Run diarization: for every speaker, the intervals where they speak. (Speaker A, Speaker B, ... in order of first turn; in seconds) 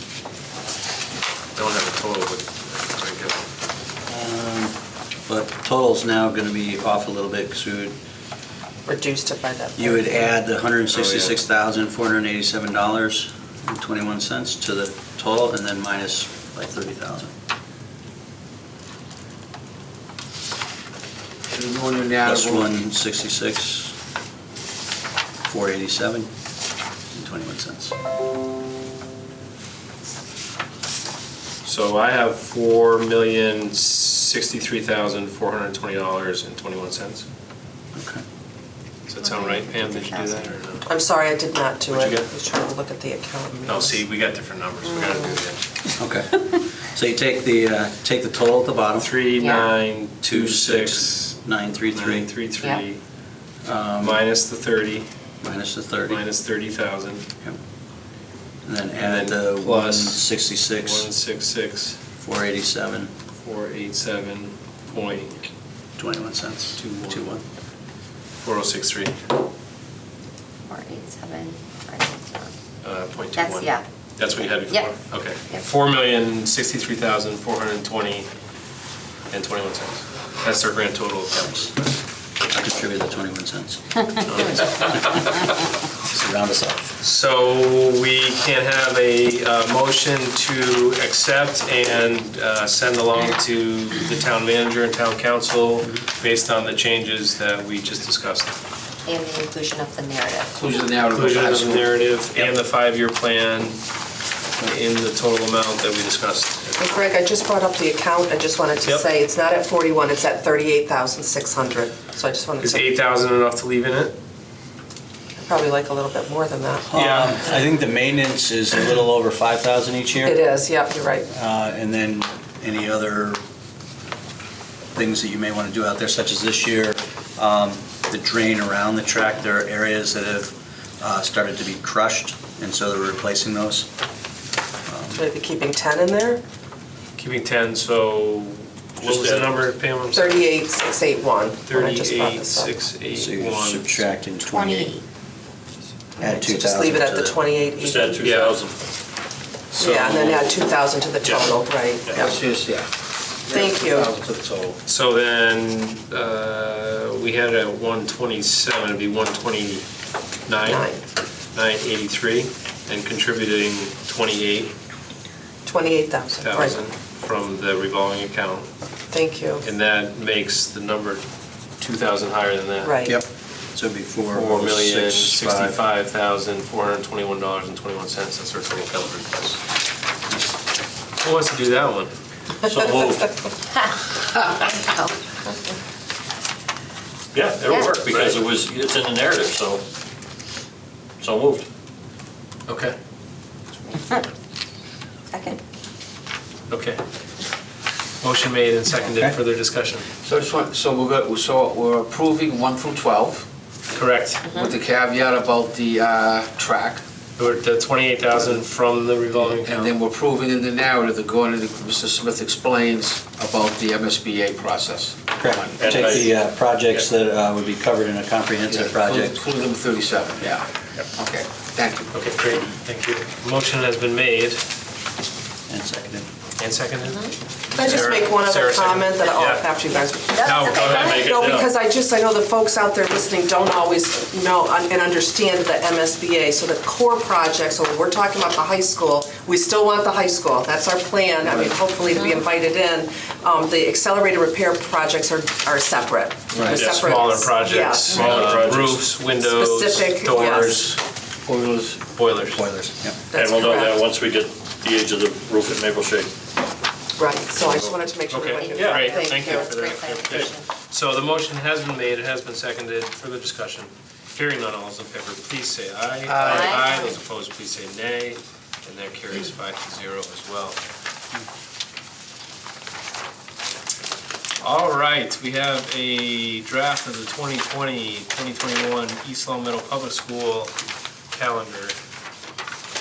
Speaker A: 1.6-3.5, 10.9-11.3, 31.6-37.2, 39.1-40.9, 41.9-42.3, 43.5-45.6, 49.0-53.0, 54.0-55.1, 56.1-57.2, 58.9-62.0, 63.4-65.4, 66.8-67.3, 68.4-69.2, 72.8-78.3, 79.3-81.8, 84.2-85.4, 87.0-98.6, 101.1-103.8, 104.6-106.9, 112.6-114.2, 116.9-117.3, 137.2-140.4, 141.6-144.0, 148.2-148.5, 149.8-150.5, 154.8-159.8, 160.5-160.9, 161.5-164.7, 166.4-168.7, 169.6-171.2, 171.8-173.0, 174.3-179.6, 181.2-182.1, 192.7-192.9, 196.7-197.0, 198.2-200.0, 203.9-204.4, 207.4-209.9, 222.1-224.6, 226.6-229.7, 230.3-231.0, 246.8-251.0, 252.1-252.6, 258.3-270.8, 274.6-280.7, 281.3-281.9
Speaker B: 4.0-8.0, 9.8-17.3, 22.2-23.9, 25.4-26.3, 27.1-27.9, 37.9-38.2, 46.0-49.1, 50.2-52.3, 53.6-54.2, 55.4-56.2, 58.6-61.1, 62.2-63.1, 66.0-67.4, 82.5-85.3, 86.1-86.9, 116.9-120.4, 121.3-123.4, 124.9-133.9, 134.9-135.2, 143.1-144.9, 146.2-147.4, 173.0-175.8, 199.0-199.3, 215.4-219.4, 225.7-226.3, 252.5-253.2
Speaker C: 8.8-10.3, 40.9-44.0, 106.8-112.9, 115.4-116.9, 120.2-121.3, 135.1-136.4, 140.1-142.7, 146.2-148.5, 149.8-152.3, 153.5-154.1, 160.6-161.0, 165.6-166.8, 169.1-169.6, 172.8-173.2, 227.7-248.7, 249.3-250.8, 253.3-254.0, 257.2-259.7
Speaker D: 21.5-22.7, 100.5-102.6, 152.1-152.9, 153.4-154.8, 200.2-203.4, 204.5-207.0, 209.5-216.3, 218.7-222.1, 246.5-246.8, 251.4-252.0, 266.2-266.7
Speaker E: 39.2-40.6, 44.8-45.4, 49.4-49.7, 70.7-72.5, 73.3-73.8, 99.0-100.5, 144.4-145.0, 184.6-185.1, 187.7-187.9, 193.8-194.2, 195.3-195.6, 204.4-204.8, 230.3-231.2, 258.5-260.7, 266.4-267.2
Speaker F: 139.0-139.6, 147.8-148.7, 182.6-183.3, 187.3-189.8, 191.2-191.7, 215.8-216.2, 230.7-231.7, 246.7-249.1, 253.3-256.3, 257.6-257.9